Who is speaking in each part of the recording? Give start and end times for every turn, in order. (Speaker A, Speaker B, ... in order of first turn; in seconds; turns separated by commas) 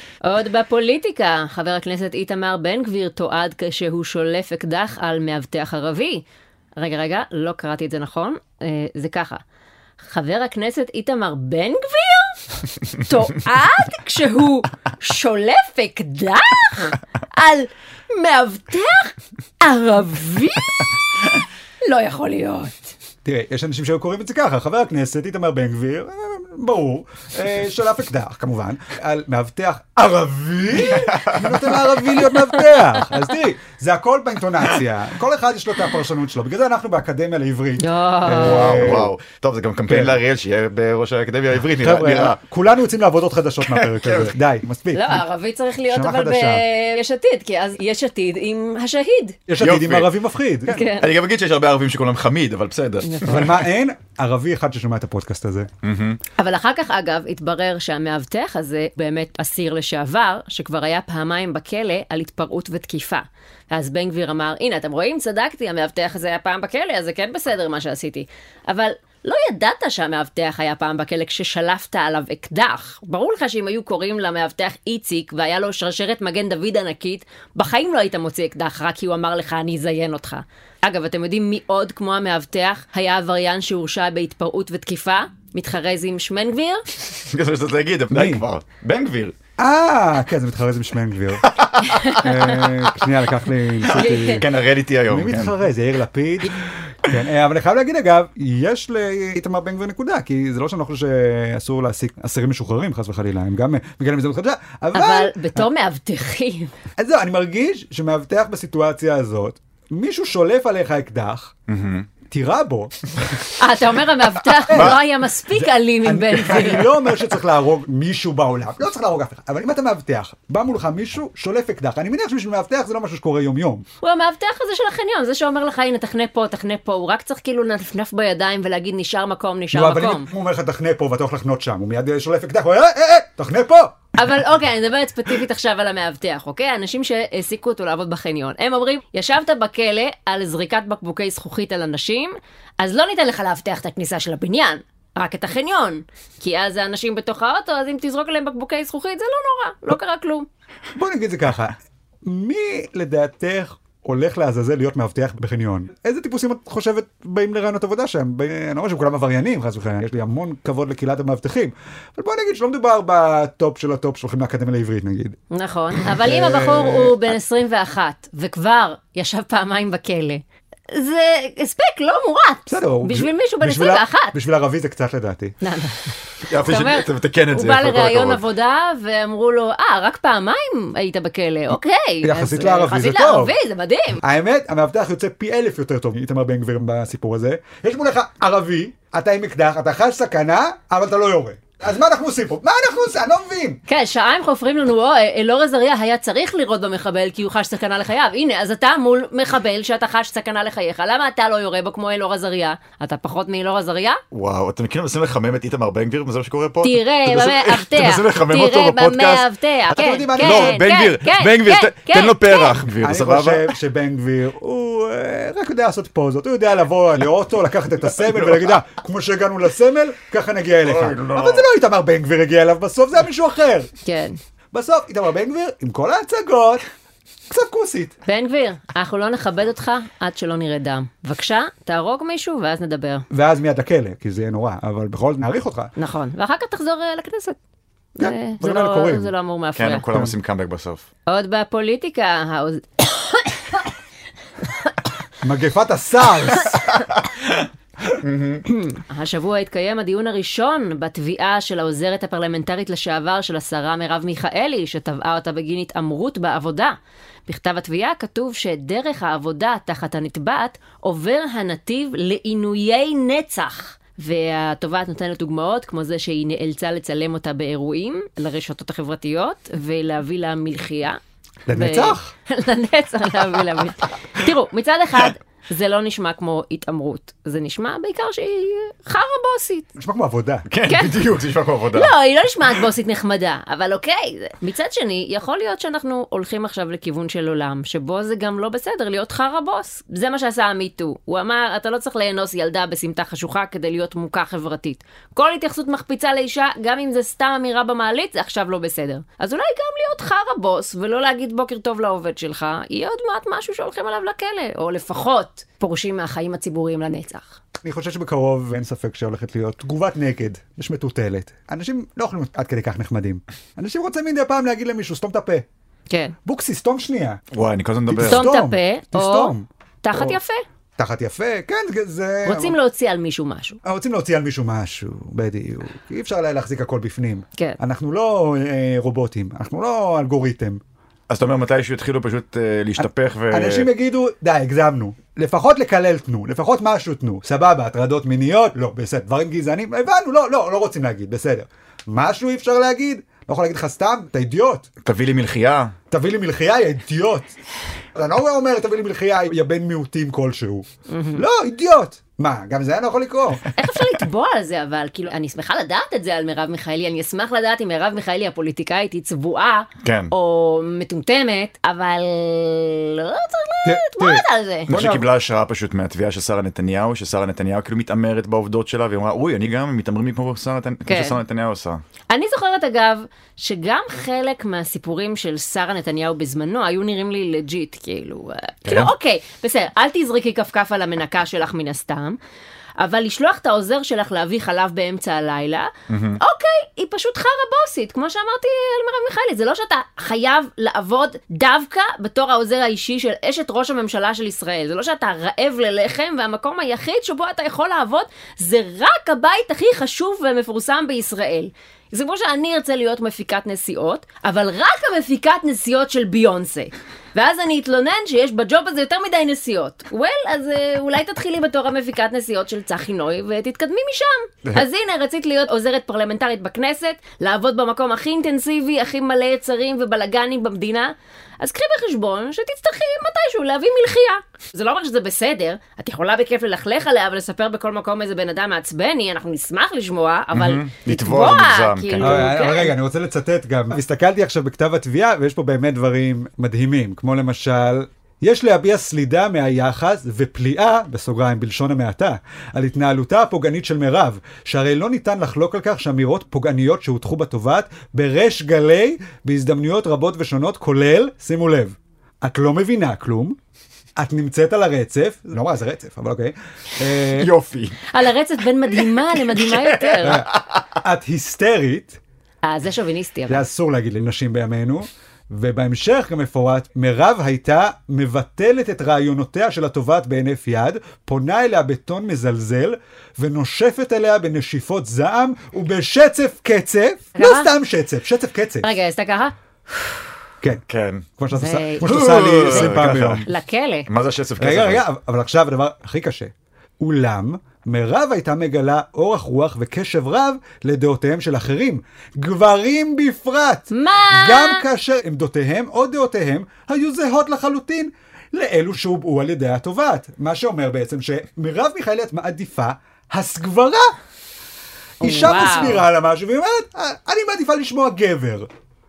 Speaker A: 0.2-6.2, Speaker A: 6.8-9.4, Speaker A: 10.0-20.9, Speaker A: 21.9-22.9, Speaker B: 23.2-39.1, Speaker C: 31.1-31.6, Speaker A: 37.8-39.0, Speaker C: 38.4-42.4, Speaker B: 39.9-40.2, Speaker B: 41.8-45.2, Speaker C: 43.7-44.4, Speaker A: 44.9-49.4, Speaker B: 45.9-46.6, Speaker B: 49.5-50.8, Speaker C: 49.6-50.1, Speaker A: 50.7-51.1, Speaker C: 50.9-53.7, Speaker A: 53.0-53.5, Speaker B: 53.2-55.7, Speaker C: 55.8-56.2, Speaker A: 56.4-86.8, Speaker C: 87.3-89.4, Speaker B: 88.1-88.5, Speaker B: 89.6-91.5, Speaker C: 91.5-92.3, Speaker A: 91.8-92.5, Speaker B: 92.1-94.5, Speaker A: 93.9-94.4, Speaker C: 93.9-95.6, Speaker B: 95.1-105.6, Speaker A: 104.9-106.7, Speaker B: 107.0-111.5, Speaker C: 111.7-112.1, Speaker B: 112.3-113.4, Speaker A: 113.6-116.9, Speaker B: 114.7-115.0, Speaker C: 114.7-115.0, Speaker B: 115.5-123.8, Speaker A: 124.0-130.3, Speaker B: 129.7-134.1, Speaker A: 134.2-150.5, Speaker B: 150.9-165.4, Speaker A: 165.5-174.4, Speaker B: 166.0-167.3, Speaker B: 172.7-175.6, Speaker A: 175.6-184.2, Speaker C: 176.5-178.4, Speaker B: 182.2-183.5, Speaker B: 184.2-193.8, Speaker A: 193.9-204.2, Speaker C: 204.3-209.5, Speaker A: 206.8-212.8, Speaker B: 209.9-210.8, Speaker C: 210.4-213.7, Speaker B: 212.9-223.9, Speaker C: 220.8-221.7, Speaker A: 224.0-224.4, Speaker B: 224.7-226.8, Speaker B: 227.5-228.2, Speaker A: 228.2-233.3, Speaker B: 233.3-235.9, Speaker A: 236.0-237.6, Speaker A: 238.2-240.1, Speaker B: 238.2-239.3, Speaker C: 239.8-241.1, Speaker A: 241.3-243.8, Speaker B: 245.4-246.9, Speaker C: 248.2-248.6, Speaker A: 248.7-257.0, Speaker A: 257.5-271.2, Speaker B: 271.7-272.3, Speaker A: 271.7-279.9, Speaker B: 280.0-280.7, Speaker C: 280.7-282.1, Speaker A: 280.9-281.2, Speaker A: 281.9-307.6, Speaker B: 307.8-315.6, Speaker B: 316.4-317.4, Speaker C: 317.5-318.5, Speaker B: 318.1-320.4, Speaker A: 318.2-320.6, Speaker B: 321.0-322.8, Speaker A: 322.4-323.8, Speaker B: 323.9-330.8, Speaker C: 331.3-333.9, Speaker B: 333.0-344.9, Speaker C: 345.0-345.9, Speaker B: 346.1-347.5, Speaker B: 348.1-353.7, Speaker A: 351.1-351.4, Speaker A: 353.8-364.9, Speaker C: 360.0-360.3, Speaker B: 363.8-365.2, Speaker C: 364.9-372.0, Speaker A: 371.1-371.4, Speaker A: 372.3-382.4, Speaker C: 378.9-379.1, Speaker A: 383.0-432.9, Speaker C: 386.1-386.4, Speaker C: 430.5-432.5, Speaker B: 432.2-453.6, Speaker B: 454.1-457.5, Speaker C: 457.4-458.0, Speaker A: 458.1-460.4, Speaker C: 459.5-460.8, Speaker B: 460.2-462.2, Speaker A: 462.6-463.6, Speaker B: 463.5-478.9, Speaker A: 477.4-477.7, Speaker A: 478.8-479.5, Speaker C: 480.9-481.3, Speaker B: 481.4-483.5, Speaker A: 481.5-484.1, Speaker C: 482.0-483.5, Speaker C: 484.1-485.0, Speaker B: 484.6-504.1, Speaker A: 493.9-494.8, Speaker B: 505.2-508.7, Speaker A: 505.2-506.1